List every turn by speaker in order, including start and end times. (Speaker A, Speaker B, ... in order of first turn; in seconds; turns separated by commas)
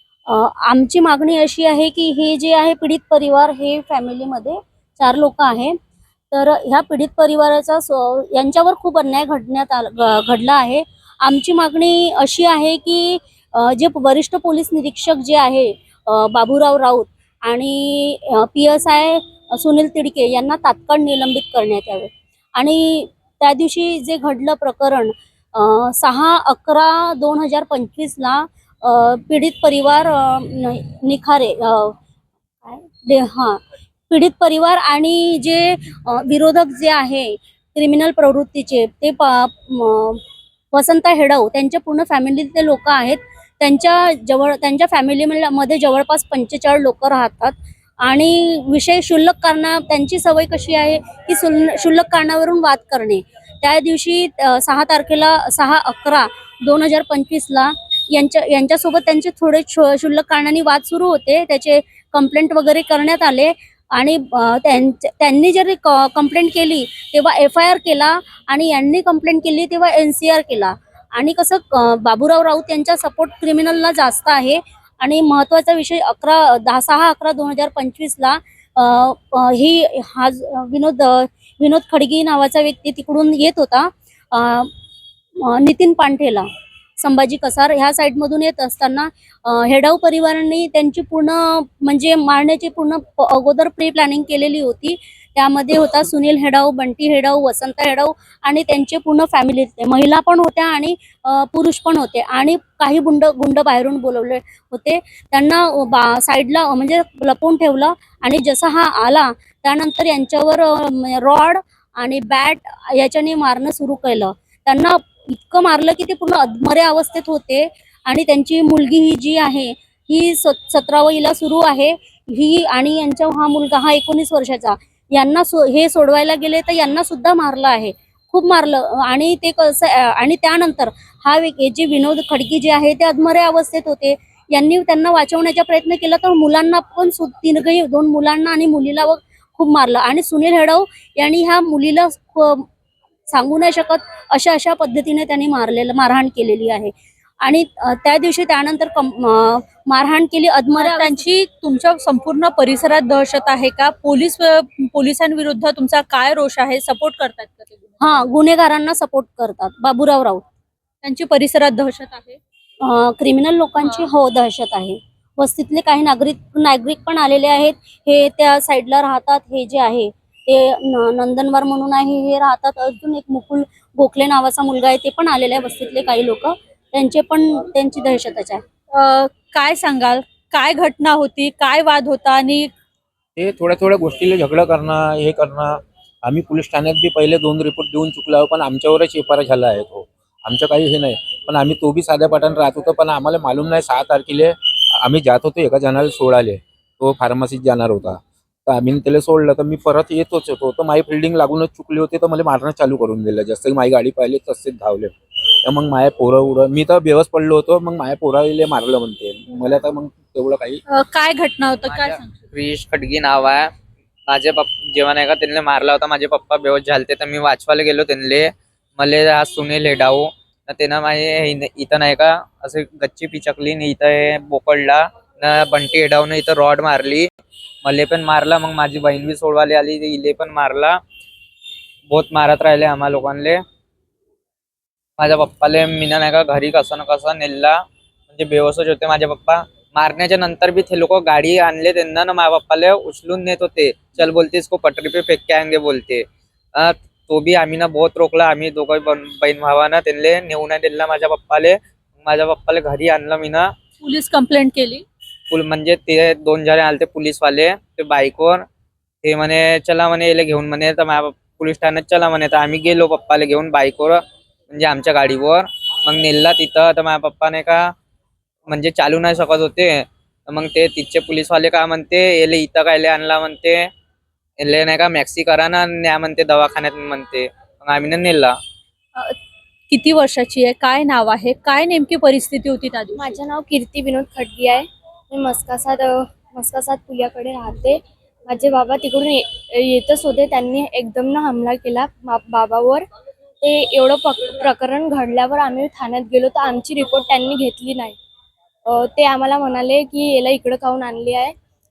Speaker A: 0.3-5.8, Speaker A: 6.3-31.9, Speaker A: 32.6-40.2, Speaker A: 40.7-84.7, Speaker A: 85.4-86.5, Speaker A: 87.0-142.7, Speaker A: 143.3-151.2, Speaker B: 150.8-158.2, Speaker A: 158.0-160.4, Speaker B: 161.0-162.4, Speaker A: 162.8-178.6, Speaker B: 178.9-182.7, Speaker C: 183.4-210.8, Speaker B: 210.9-212.4, Speaker D: 212.5-213.7, Speaker D: 214.3-227.3, Speaker D: 227.8-231.0, Speaker D: 232.1-233.6, Speaker D: 235.2-237.8, Speaker D: 238.3-246.2, Speaker D: 246.8-253.7, Speaker B: 254.0-255.0, Speaker D: 255.5-258.6, Speaker D: 259.2-264.2, Speaker D: 264.7-267.8, Speaker D: 268.7-273.9, Speaker D: 274.6-278.5, Speaker B: 279.9-283.4, Speaker E: 283.1-293.1, Speaker E: 293.6-298.2, Speaker E: 298.9-301.5